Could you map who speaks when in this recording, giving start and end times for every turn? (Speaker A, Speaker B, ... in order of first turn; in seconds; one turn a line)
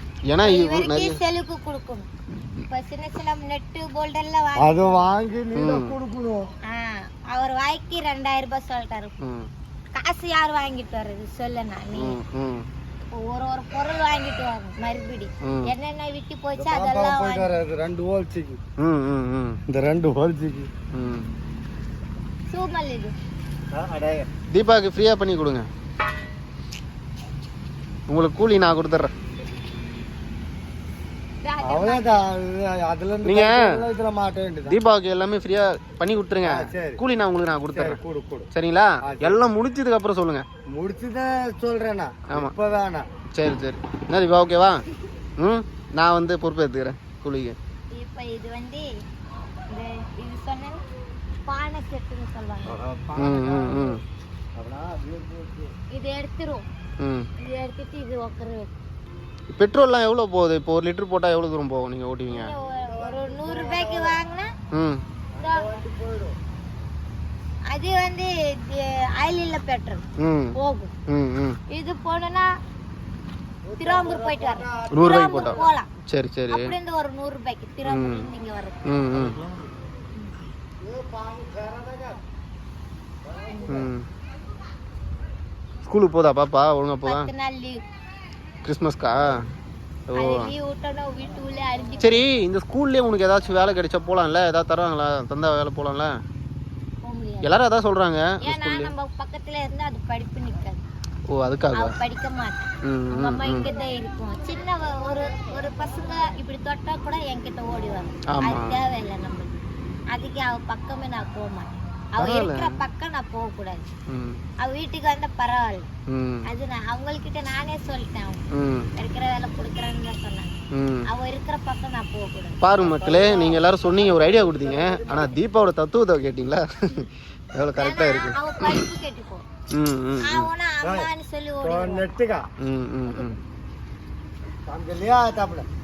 Speaker A: 0.3-1.2
Speaker B: 0.4-2.1
Speaker B: 2.7-5.1
Speaker C: 4.6-6.5
Speaker A: 5.5-6.0
Speaker B: 6.7-9.1
Speaker A: 9.2-9.5
Speaker B: 9.9-12.2
Speaker A: 11.9-12.7
Speaker B: 13.1-17.6
Speaker A: 15.4-15.7
Speaker C: 16.6-18.6
Speaker A: 18.8-19.6
Speaker C: 19.7-20.7
Speaker A: 20.9-21.3
Speaker B: 22.5-23.1
Speaker C: 23.7-24.3
Speaker A: 24.5-25.7
Speaker A: 28.1-29.1
Speaker B: 31.4-32.2
Speaker C: 31.6-34.8
Speaker A: 33.2-33.8
Speaker A: 34.7-38.0
Speaker C: 36.4-37.0
Speaker C: 37.7-38.5
Speaker A: 38.5-40.5
Speaker C: 39.0-39.4
Speaker C: 40.7-43.1
Speaker A: 42.3-42.5
Speaker A: 43.3-44.8
Speaker A: 45.4-47.6
Speaker B: 48.0-48.9
Speaker B: 49.7-50.8
Speaker B: 51.5-52.8
Speaker C: 52.7-54.0
Speaker A: 53.2-54.0
Speaker C: 54.6-55.7
Speaker B: 55.9-56.6
Speaker A: 57.0-57.3
Speaker B: 57.4-58.8
Speaker A: 59.5-62.5
Speaker B: 62.3-64.5
Speaker C: 62.9-64.2
Speaker A: 64.7-65.0
Speaker C: 65.4-66.4
Speaker B: 65.4-65.7
Speaker B: 67.7-70.0
Speaker A: 70.2-71.6
Speaker B: 70.5-70.9
Speaker B: 71.7-72.5
Speaker C: 73.7-75.7
Speaker B: 73.8-75.9
Speaker A: 74.9-76.7
Speaker B: 76.5-78.9
Speaker A: 77.8-78.3
Speaker A: 78.9-79.5
Speaker C: 80.8-82.2
Speaker C: 83.3-83.8
Speaker B: 83.5-83.9
Speaker A: 83.7-84.0
Speaker A: 85.8-87.3
Speaker B: 87.1-87.8
Speaker A: 88.6-89.4
Speaker A: 90.1-90.5
Speaker B: 90.2-92.3
Speaker A: 92.0-96.1
Speaker B: 97.0-97.6
Speaker A: 97.4-98.9
Speaker B: 98.4-100.8
Speaker A: 101.3-102.0
Speaker B: 101.7-109.6
Speaker A: 102.8-103.7
Speaker A: 108.3-108.8
Speaker B: 110.1-113.9
Speaker A: 112.2-112.8
Speaker A: 114.1-114.4
Speaker B: 114.6-115.9
Speaker A: 116.1-116.5
Speaker B: 116.5-122.6
Speaker A: 118.5-118.9
Speaker A: 120.7-121.1
Speaker A: 122.6-128.9
Speaker C: 122.8-125.3
Speaker B: 127.8-129.5
Speaker A: 129.7-130.5
Speaker B: 130.2-132.1
Speaker C: 130.8-131.1
Speaker C: 131.6-132.5
Speaker A: 132.6-133.4
Speaker C: 134.7-135.7